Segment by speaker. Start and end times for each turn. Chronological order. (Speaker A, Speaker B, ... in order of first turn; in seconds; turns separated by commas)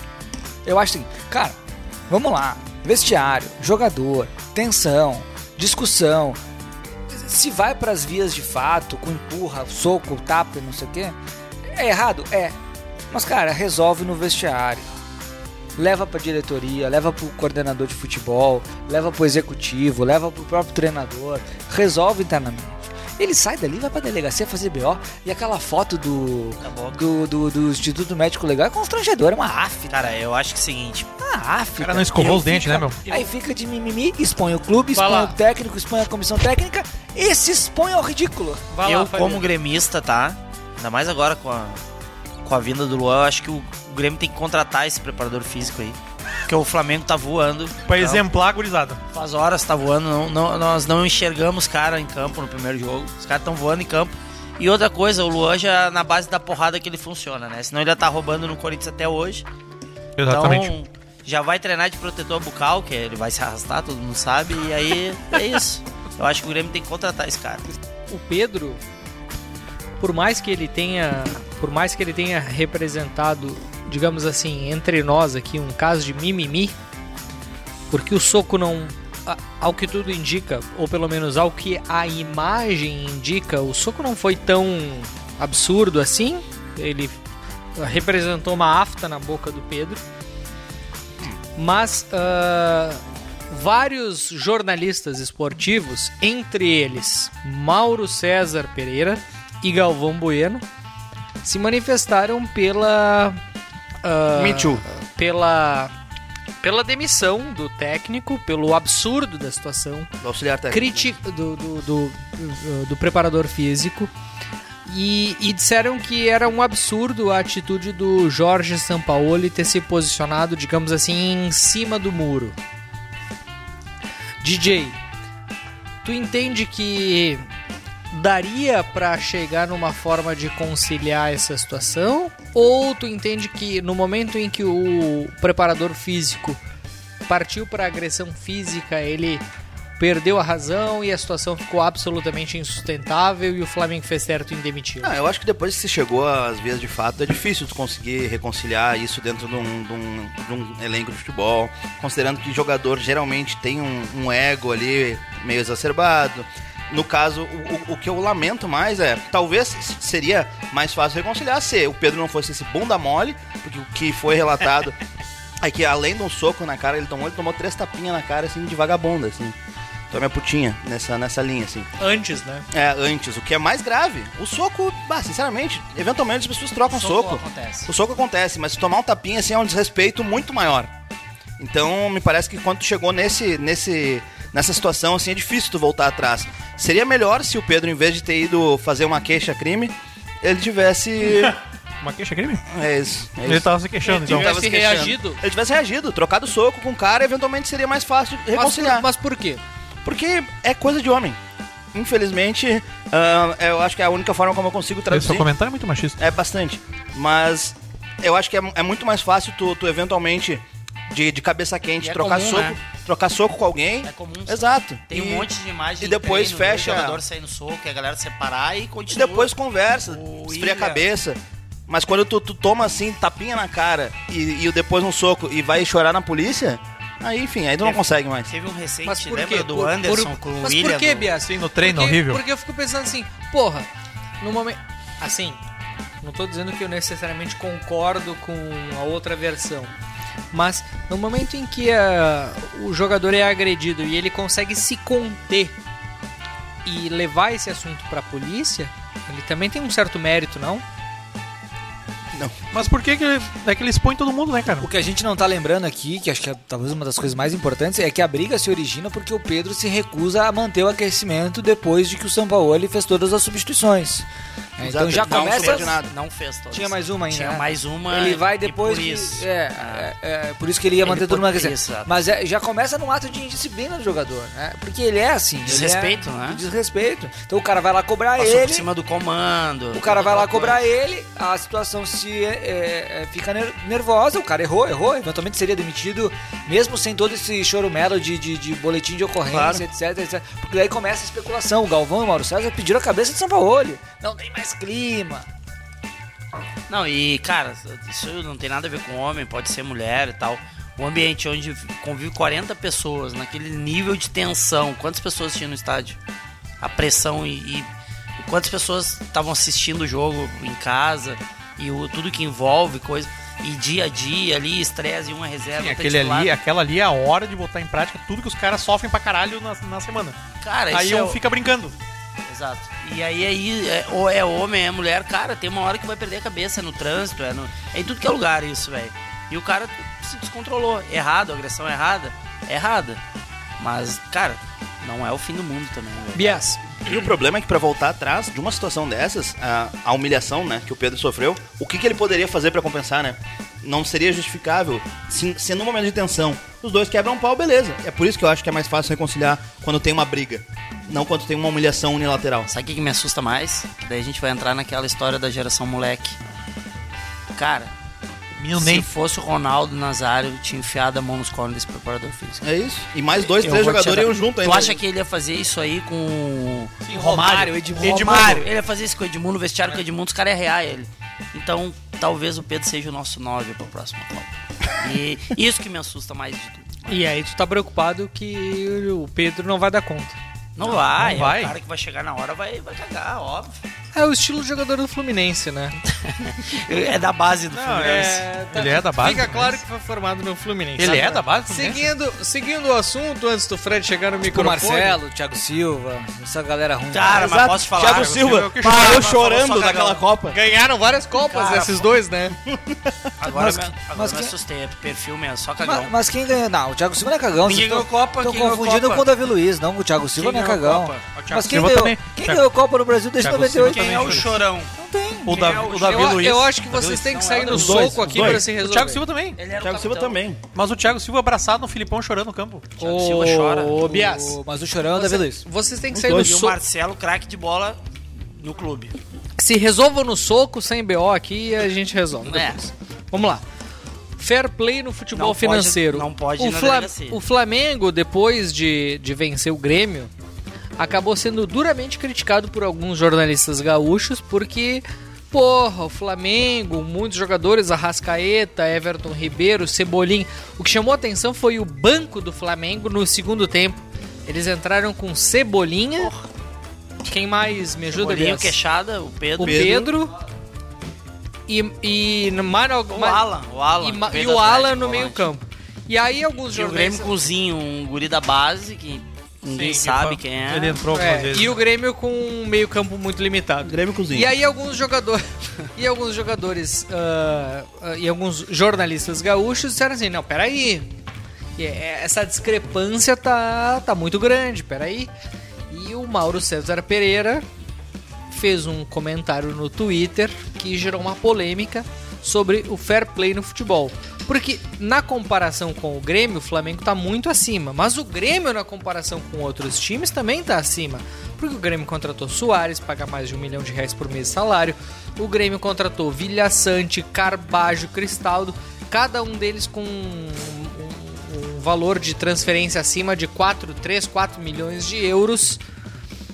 Speaker A: 0.7-1.6, Speaker A: 2.1-6.4, Speaker A: 7.1-11.2, Speaker A: 11.7-12.6, Speaker A: 13.1-14.9, Speaker A: 15.8-30.1, Speaker B: 26.6-27.0, Speaker B: 29.9-31.1, Speaker A: 31.2-38.6, Speaker C: 31.8-33.0, Speaker D: 34.9-35.4, Speaker D: 38.7-39.5, Speaker B: 38.9-41.8, Speaker B: 42.4-48.3, Speaker C: 47.9-49.0, Speaker B: 49.1-59.5, Speaker C: 60.2-60.7, Speaker B: 60.3-67.7, Speaker D: 68.1-68.8, Speaker D: 70.0-76.8, Speaker D: 77.9-87.2, Speaker D: 87.8-90.0, Speaker D: 91.6-100.7, Speaker D: 101.4-103.4, Speaker D: 104.0-105.9, Speaker B: 104.4-104.8, Speaker D: 106.6-110.1, Speaker E: 110.2-111.1, Speaker D: 110.7-114.1, Speaker D: 114.9-122.6, Speaker D: 124.4-125.0, Speaker D: 126.0-127.5, Speaker D: 128.1-136.6, Speaker D: 137.3-139.4, Speaker D: 140.0-145.2, Speaker E: 145.0-165.0, Speaker E: 165.6-169.6, Speaker E: 170.1-171.9, Speaker D: 172.0-172.7, Speaker E: 172.7-180.9, Speaker B: 176.9-177.9, Speaker E: 181.6-191.6, Speaker C: 191.4-192.6, Speaker E: 192.7-199.1, Speaker C: 193.4-194.5, Speaker D: 194.1-195.4, Speaker D: 198.6-199.6, Speaker E: 200.0-201.4, Speaker E: 201.9-205.5, Speaker C: 205.1-206.2, Speaker E: 206.2-217.2, Speaker B: 212.0-212.8, Speaker B: 214.1-219.5, Speaker E: 219.1-228.5, Speaker B: 220.1-221.1, Speaker B: 227.8-231.3, Speaker D: 229.1-233.9, Speaker C: 231.4-232.4, Speaker D: 234.4-235.6, Speaker D: 236.2-239.9, Speaker D: 240.5-245.8, Speaker D: 246.8-250.8, Speaker C: 252.7-254.9, Speaker A: 254.7-264.3, Speaker A: 264.8-266.0, Speaker E: 264.8-266.1, Speaker B: 265.2-270.1, Speaker A: 266.7-278.9, Speaker B: 271.0-272.1, Speaker B: 275.6-276.6, Speaker B: 278.4-280.8, Speaker A: 279.9-295.5, Speaker B: 289.5-289.8, Speaker B: 296.9-306.2, Speaker B: 306.8-307.9, Speaker B: 308.4-316.6, Speaker C: 315.8-320.4, Speaker B: 320.6-321.4, Speaker C: 320.9-321.9, Speaker B: 322.5-333.2, Speaker B: 333.8-336.7, Speaker D: 336.3-336.8, Speaker E: 337.1-352.7, Speaker B: 352.7-356.4, Speaker B: 357.5-357.9, Speaker C: 358.6-359.1, Speaker B: 358.8-362.6, Speaker E: 362.6-365.0, Speaker B: 363.4-377.2, Speaker C: 367.1-368.7, Speaker A: 367.2-368.5, Speaker D: 377.1-380.4, Speaker B: 380.8-383.8, Speaker C: 380.9-381.8, Speaker D: 384.1-386.0, Speaker B: 386.2-388.4, Speaker C: 387.7-389.8, Speaker D: 388.0-395.2, Speaker C: 391.0-392.1, Speaker B: 391.0-391.3, Speaker A: 394.5-397.4, Speaker B: 397.1-400.2, Speaker E: 397.3-400.6, Speaker C: 398.1-399.3, Speaker D: 400.5-402.6, Speaker B: 401.4-402.2, Speaker E: 402.7-403.0, Speaker B: 403.4-406.1, Speaker A: 403.5-404.5, Speaker A: 405.8-415.6, Speaker B: 407.6-409.3, Speaker B: 410.4-411.4, Speaker C: 411.3-412.7, Speaker C: 413.4-414.5, Speaker B: 413.8-414.9, Speaker C: 415.5-419.6, Speaker B: 415.5-418.2, Speaker D: 416.0-419.2, Speaker E: 417.7-418.6, Speaker B: 419.6-420.4, Speaker E: 419.8-420.6, Speaker C: 420.7-422.9, Speaker B: 423.0-424.0, Speaker D: 423.0-424.6, Speaker A: 424.0-425.6, Speaker D: 425.1-426.8, Speaker E: 426.1-426.7, Speaker B: 426.3-428.0, Speaker B: 428.6-429.1, Speaker D: 429.6-433.6, Speaker B: 432.4-432.8, Speaker D: 434.4-440.3, Speaker B: 435.4-437.4, Speaker D: 441.0-456.3, Speaker B: 456.2-456.5, Speaker D: 457.2-458.8, Speaker B: 458.1-459.9, Speaker D: 459.6-460.3, Speaker E: 459.6-460.1, Speaker D: 461.7-463.4, Speaker B: 463.1-465.5, Speaker D: 464.0-467.3, Speaker B: 466.7-471.0, Speaker C: 469.7-471.8, Speaker D: 471.1-481.1, Speaker E: 473.8-474.5, Speaker D: 481.8-485.3, Speaker D: 485.9-487.6, Speaker D: 488.5-515.8